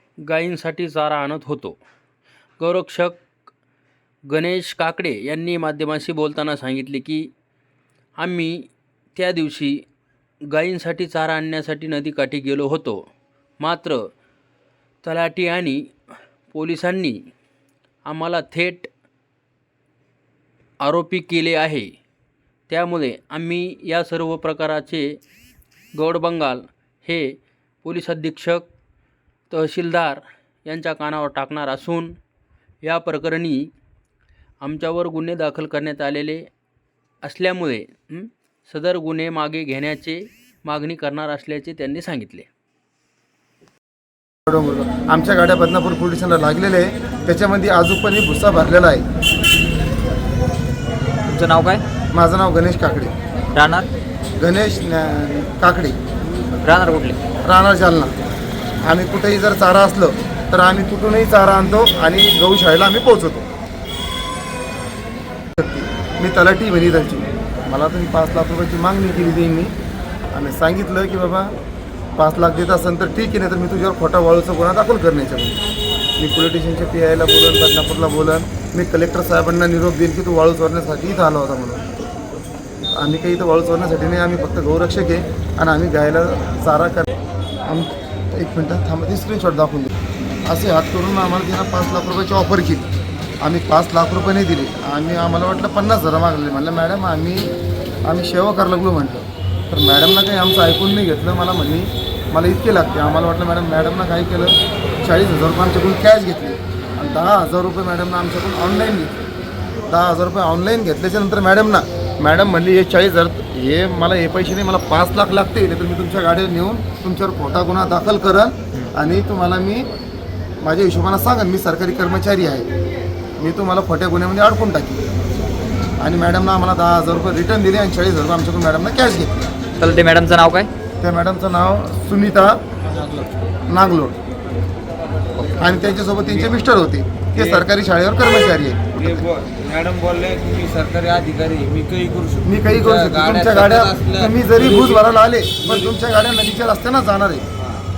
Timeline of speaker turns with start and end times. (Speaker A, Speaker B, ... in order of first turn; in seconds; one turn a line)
Speaker A: 0.2-1.8
Speaker A: 2.6-3.2
Speaker A: 4.3-7.3
Speaker A: 8.2-9.8
Speaker A: 10.5-13.0
Speaker A: 13.6-14.1
Speaker A: 15.0-15.9
Speaker A: 16.5-17.2
Speaker A: 18.1-18.9
Speaker A: 20.8-21.9
Speaker A: 22.7-25.2
Speaker A: 25.9-28.6
Speaker A: 29.5-32.1
Speaker A: 32.8-33.7
Speaker A: 34.6-36.5
Speaker A: 37.2-42.5
Speaker B: 44.5-49.0
Speaker C: 51.2-51.8
Speaker B: 52.1-53.1
Speaker C: 53.5-53.9
Speaker B: 54.4-56.0
Speaker C: 56.6-57.2
Speaker B: 57.4-58.1
Speaker B: 58.9-63.5
Speaker B: 65.6-69.7
Speaker B: 70.3-71.5
Speaker B: 72.2-75.6
Speaker B: 76.2-81.8
Speaker B: 82.9-89.9
Speaker B: 90.4-92.9
Speaker B: 93.4-97.5
Speaker B: 98.0-109.1
Speaker B: 109.9-119.8
Speaker B: 120.6-122.7
Speaker B: 123.4-125.0
Speaker B: 126.0-129.5
Speaker C: 129.8-130.7
Speaker B: 131.0-132.6
Speaker B: 133.7-134.2
Speaker B: 135.6-139.2
Speaker D: 137.4-137.6
Speaker D: 139.0-145.0
Speaker B: 142.4-147.4
Speaker D: 145.6-145.9